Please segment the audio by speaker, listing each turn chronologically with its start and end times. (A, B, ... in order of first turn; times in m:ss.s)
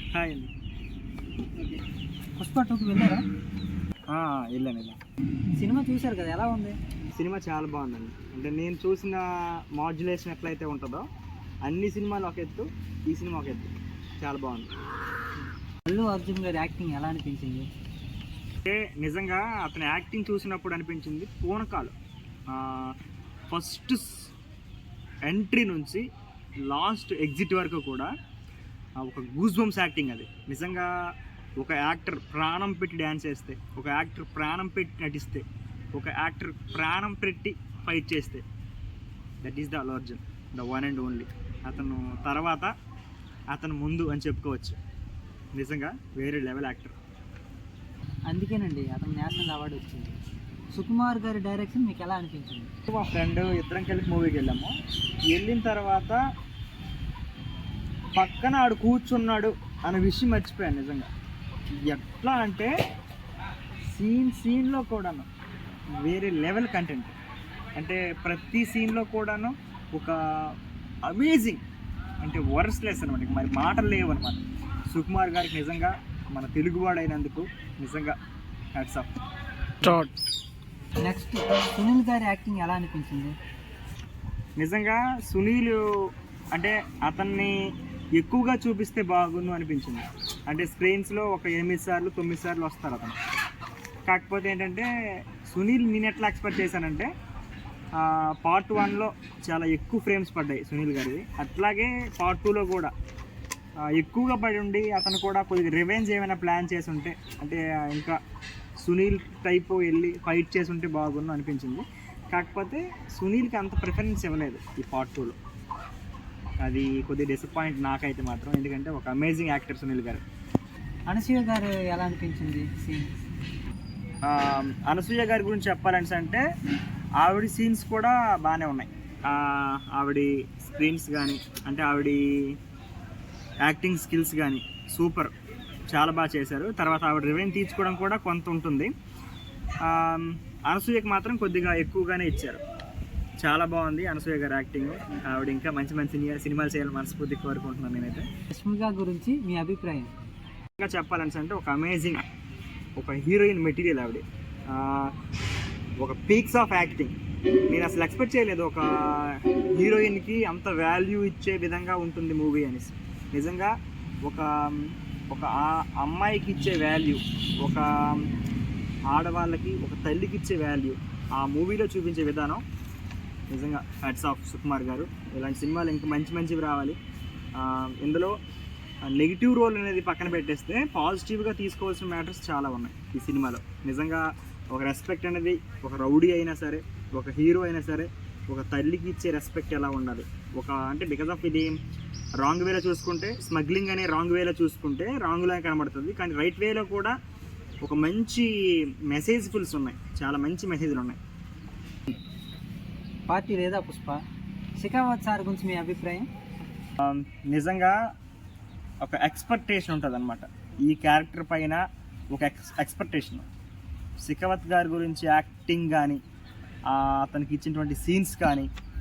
0:00.1-0:00.5 A
0:02.4-0:03.2 B
0:04.1-0:05.0 A
0:05.5-0:06.8 B
0:07.1-0:11.0 A
0:11.6-0:14.7 A
0:15.8-0:17.7 B
0:18.6-0:21.9 A
0:22.5-0:22.9 A
0:23.5-0:24.3 A
0:25.3-0:26.0 A
0:26.7-0:28.1 A
0:29.0-0:30.9 A
0:31.6-0:38.4 A
0:39.4-0:42.7 A
0:43.5-0:44.8 A
0:45.5-0:46.9 A
0:48.3-0:50.2 B
0:50.7-0:52.7 B
0:52.9-0:54.7 A
0:55.3-0:56.2 A
0:58.2-1:01.1 A
1:01.7-1:02.7 A
1:03.9-1:05.3 A
1:05.9-1:07.2 A
1:07.8-1:11.6 A
1:12.2-1:18.2 A
1:18.7-1:19.1 A
1:19.8-1:20.1 B
1:21.0-1:23.3 B
1:24.6-1:25.8 A
1:26.5-1:33.2 A
1:34.1-1:37.1 A
1:37.9-1:42.9 A
1:43.9-1:48.2 A
1:48.8-1:55.4 A
1:56.6-2:00.2 A
2:01.1-2:03.1 B
2:04.3-2:06.4 A
2:07.2-2:12.5 A
2:13.6-2:15.3 A
2:15.9-2:18.9 A
2:19.8-2:22.6 A
2:23.4-2:28.3 A
2:28.5-2:30.1 B
2:30.8-2:32.2 A
2:33.0-2:35.1 A
2:36.0-2:37.2 A
2:37.7-2:43.7 A
2:44.2-2:48.3 A
2:49.1-2:52.6 A
2:53.5-2:57.0 A
2:57.5-2:58.4 A
2:59.1-3:11.8 A
3:12.4-3:17.1 A
3:17.8-3:18.5 A
3:19.1-3:21.2 A
3:23.3-3:24.2 B
3:24.8-3:26.3 B
3:27.0-3:28.0 A
3:29.0-3:31.8 A
3:32.3-3:33.5 A
3:34.2-3:36.2 A
3:36.9-3:38.7 A